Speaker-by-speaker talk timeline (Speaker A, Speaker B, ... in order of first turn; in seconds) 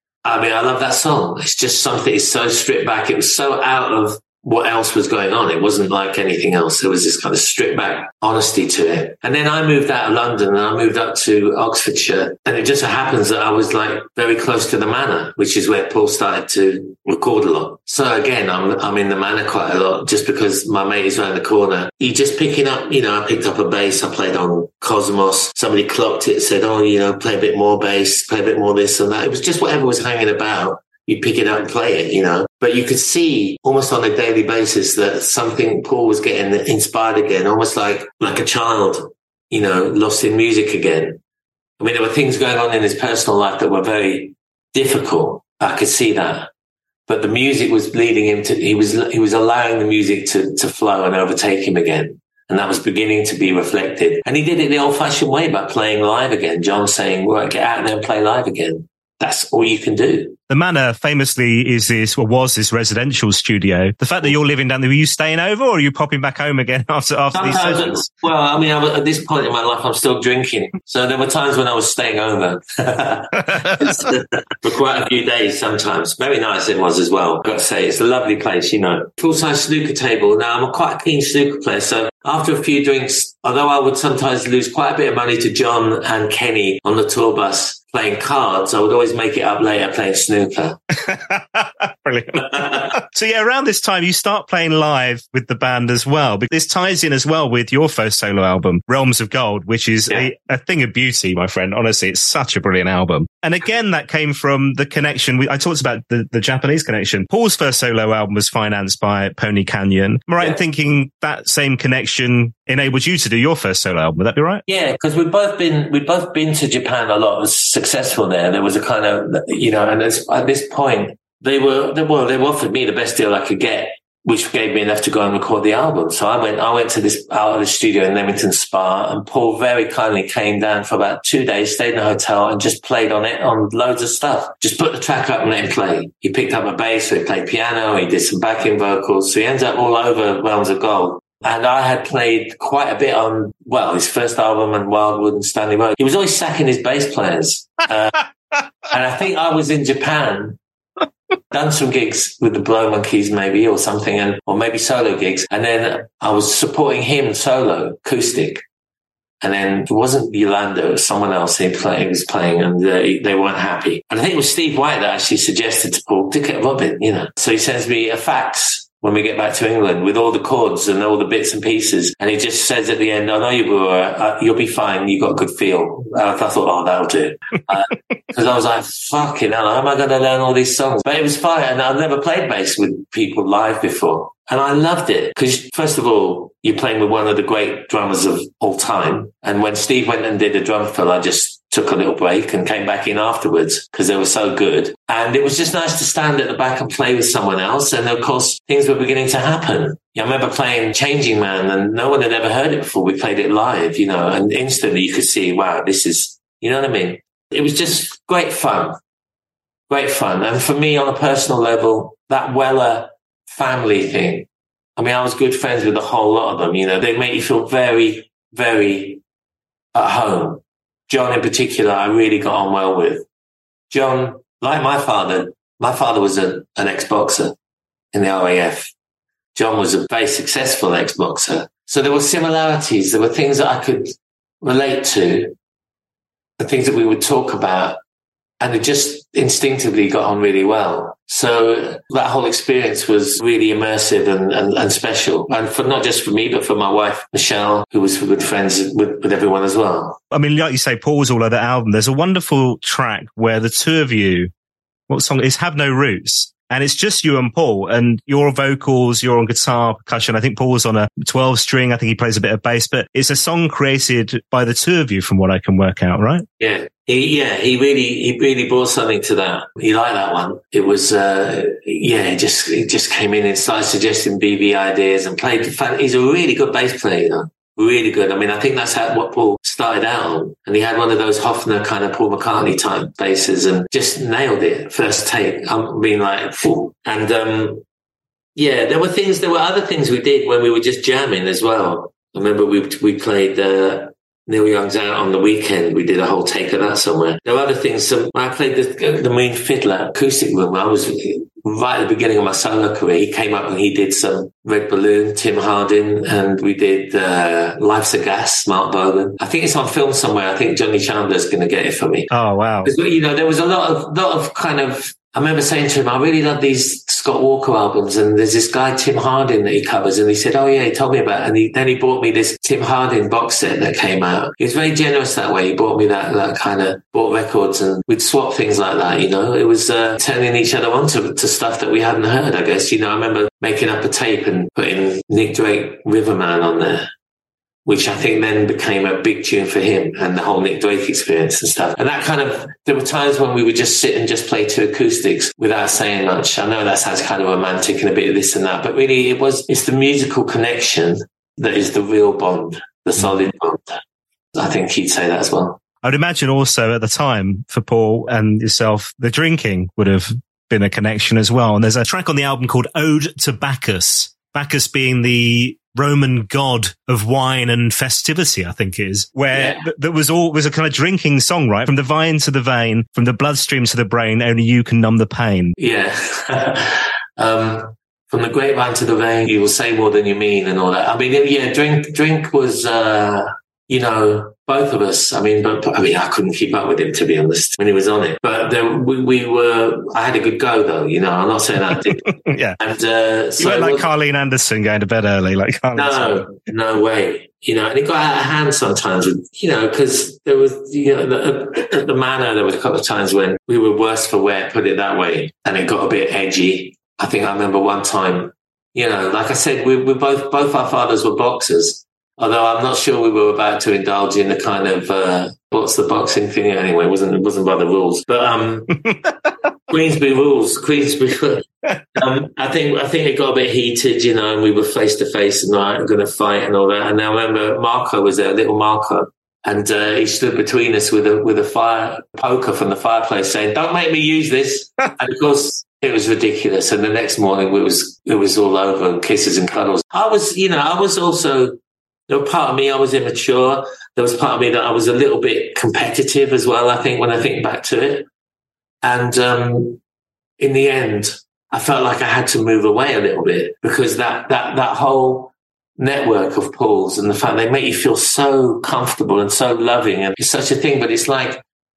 Speaker A: 0.2-41.2, 41.8-46.5, 47.1-60.4, 67.3-90.8, 92.5-92.8, 114.7-148.2, 148.9-150.6, 151.5-158.6, 159.4-209.0, 209.9-219.2, 219.9-223.3, 223.9-227.6, 228.1-228.9, 229.6-235.6, 236.6-238.0, 238.6-250.2, 266.6-287.9, 288.6-312.3, 312.8-337.1, 337.9-354.0, 354.5-355.8, 369.5-369.9, 375.8-392.2, 392.8-394.1, 395.9-419.0, 419.9-441.8, 442.3-448.3, 449.0-450.0, 450.6-461.6
Speaker B: 60.5-68.1, 73.5-73.9, 91.0-114.6, 250.3-254.5, 255.1-266.5, 312.3-312.9, 356.0-375.8, 392.1-392.8, 393.6-396.5, 419.1-419.3